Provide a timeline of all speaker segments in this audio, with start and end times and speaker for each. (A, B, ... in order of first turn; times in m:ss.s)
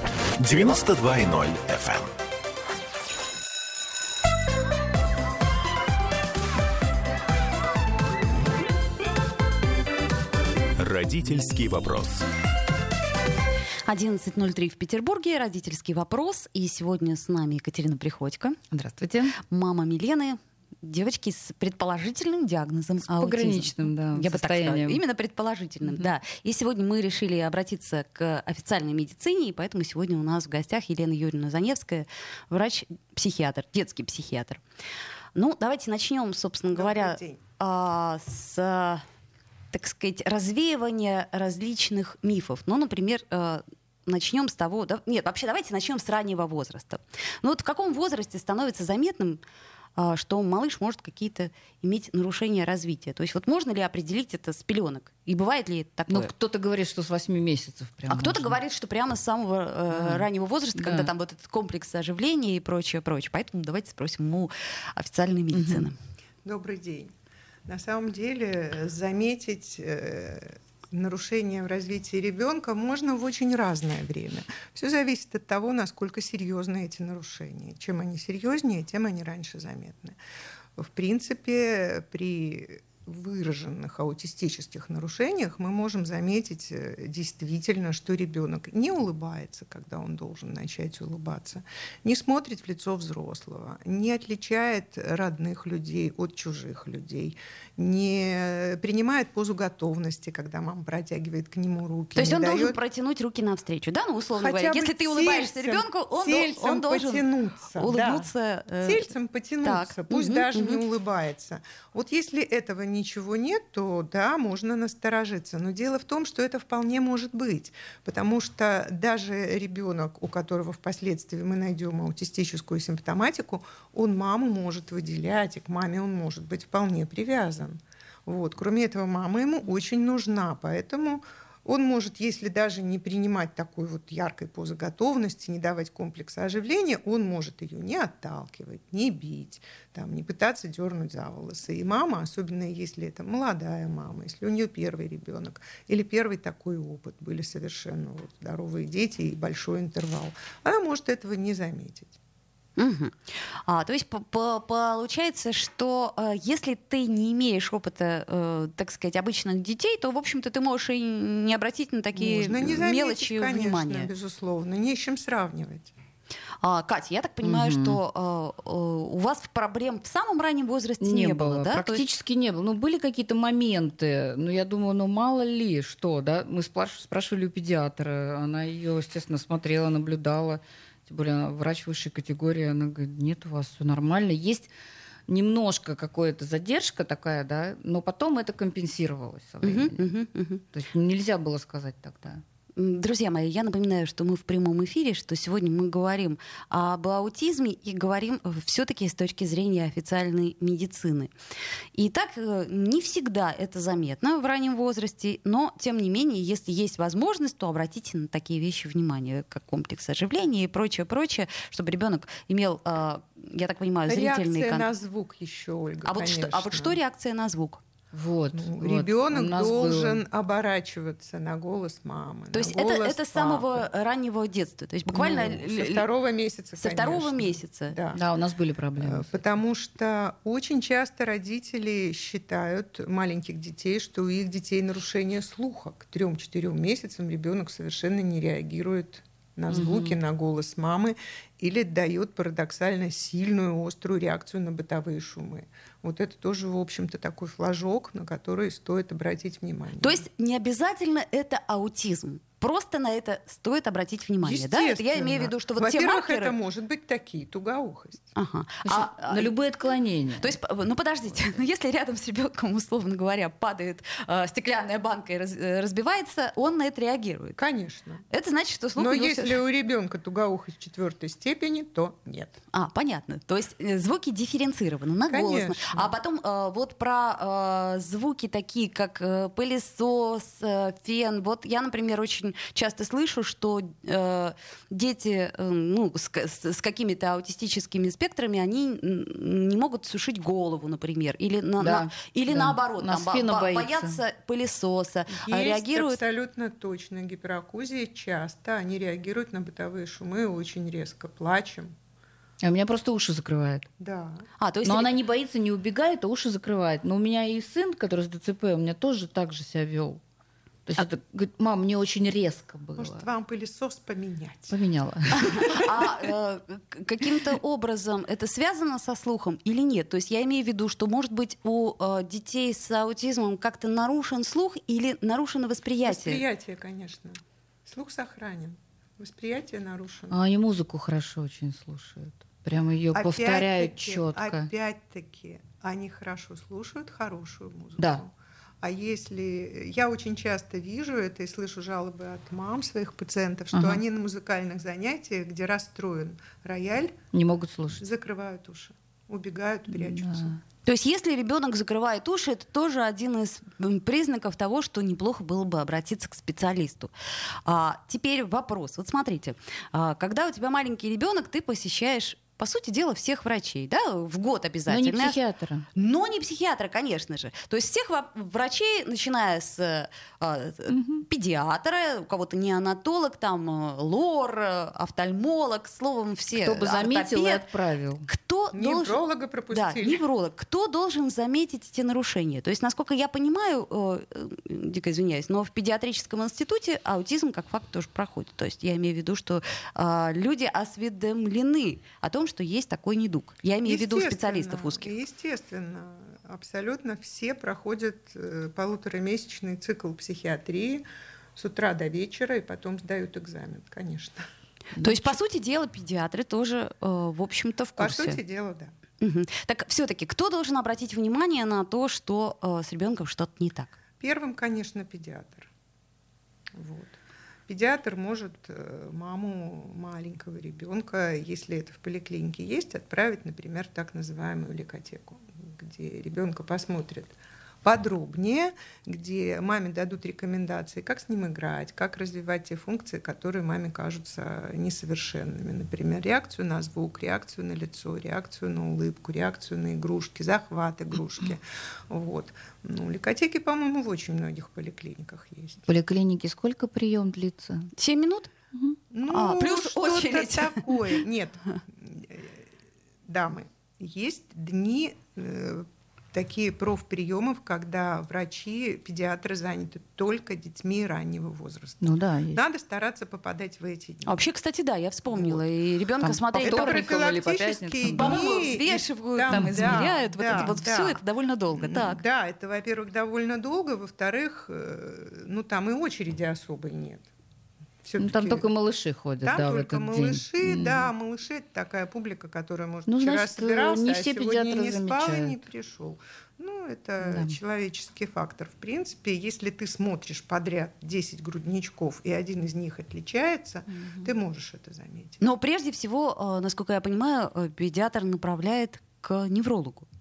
0:00.4-0:02.1 A
0:10.8-0:12.2 A
0:13.8-0:18.6 B
0:18.7-0:19.4 C
0:19.5-0:34.6 B
0:23.1-0:25.0 C
0:25.8-0:26.1 C
0:35.3-0:39.0 B
0:36.8-0:37.4 D
0:39.7-0:49.4 B
0:50.0-0:56.3 B
0:56.1-0:58.6 C
0:58.1-1:06.0 B
0:59.9-1:01.1 C
1:05.5-1:05.9 C
1:06.4-1:07.1 D
1:07.7-1:20.2 D
1:20.8-1:42.8 D
1:42.2-1:49.1 B
1:44.4-1:48.3 D
1:48.8-2:32.2 D
1:49.6-1:50.8 B
2:32.8-2:44.1 B
2:42.1-2:45.9 D
2:46.6-2:52.0 B
2:47.4-2:48.0 C
2:51.0-3:04.7 C
3:05.3-3:10.0 C
3:09.6-3:10.6 B
3:10.7-3:12.4 C
3:12.8-3:21.3 B
3:21.9-3:34.9 B
3:34.1-3:37.0 D
3:36.0-3:37.8 B
3:38.1-3:40.2 C
3:38.5-3:43.8 D
3:42.5-3:46.1 B
3:45.1-3:48.2 D
3:46.8-3:48.0 B
3:48.1-3:49.5 C
3:49.0-4:10.2 D
3:59.7-4:00.1 C
4:10.0-4:16.6 B
4:14.4-4:18.3 D
4:18.4-4:19.6 B
4:18.8-4:20.5 C
4:20.4-4:27.6 B
4:27.6-4:28.2 D
4:28.3-4:29.6 B
4:29.0-4:32.6 D
4:32.7-4:56.2 B
4:35.3-4:36.1 D
4:51.8-4:54.2 C
4:55.3-5:01.9 D
5:02.6-5:03.9 C
5:04.0-5:04.5 D
5:04.6-5:05.2 B
5:04.8-5:10.2 C
5:10.9-5:13.2 C
5:13.0-5:14.8 D
5:14.7-5:15.9 C
5:15.4-5:26.4 B
5:26.0-5:30.4 D
5:30.3-5:34.7 C
5:33.1-5:47.2 D
5:43.7-5:44.0 C
5:47.3-5:48.0 C
5:48.0-5:50.5 D
5:49.9-5:50.6 C
5:50.9-5:57.1 B
5:57.6-6:05.4 B
6:04.9-6:05.8 C
6:05.9-6:17.7 B
6:10.9-6:11.2 C
6:16.6-6:18.3 C
6:18.3-6:19.2 B
6:18.7-6:20.2 D
6:19.7-6:35.1 B
6:33.8-6:41.0 D
6:41.6-6:44.5 D
6:45.0-6:45.4 C
6:45.0-6:48.4 B
6:48.0-6:48.9 D
6:49.2-6:53.9 B
6:54.2-6:55.7 D
6:56.8-7:25.8 D
7:25.9-7:27.9 C
7:28.0-7:28.5 B
7:29.1-7:32.6 D
7:29.2-7:31.1 B
7:33.3-7:44.4 D
7:42.0-7:42.6 C
7:44.2-7:47.1 B
7:45.3-7:45.6 D
7:46.2-7:48.4 C
7:46.6-7:51.2 D
7:48.1-7:52.2 B
7:49.5-7:50.7 C
7:51.7-7:57.3 D
7:58.0-7:58.7 D
7:58.2-8:01.1 C
7:59.4-8:15.4 D
8:03.1-8:05.6 C
8:07.2-8:07.6 C
8:13.9-8:14.3 C
8:15.4-8:20.1 B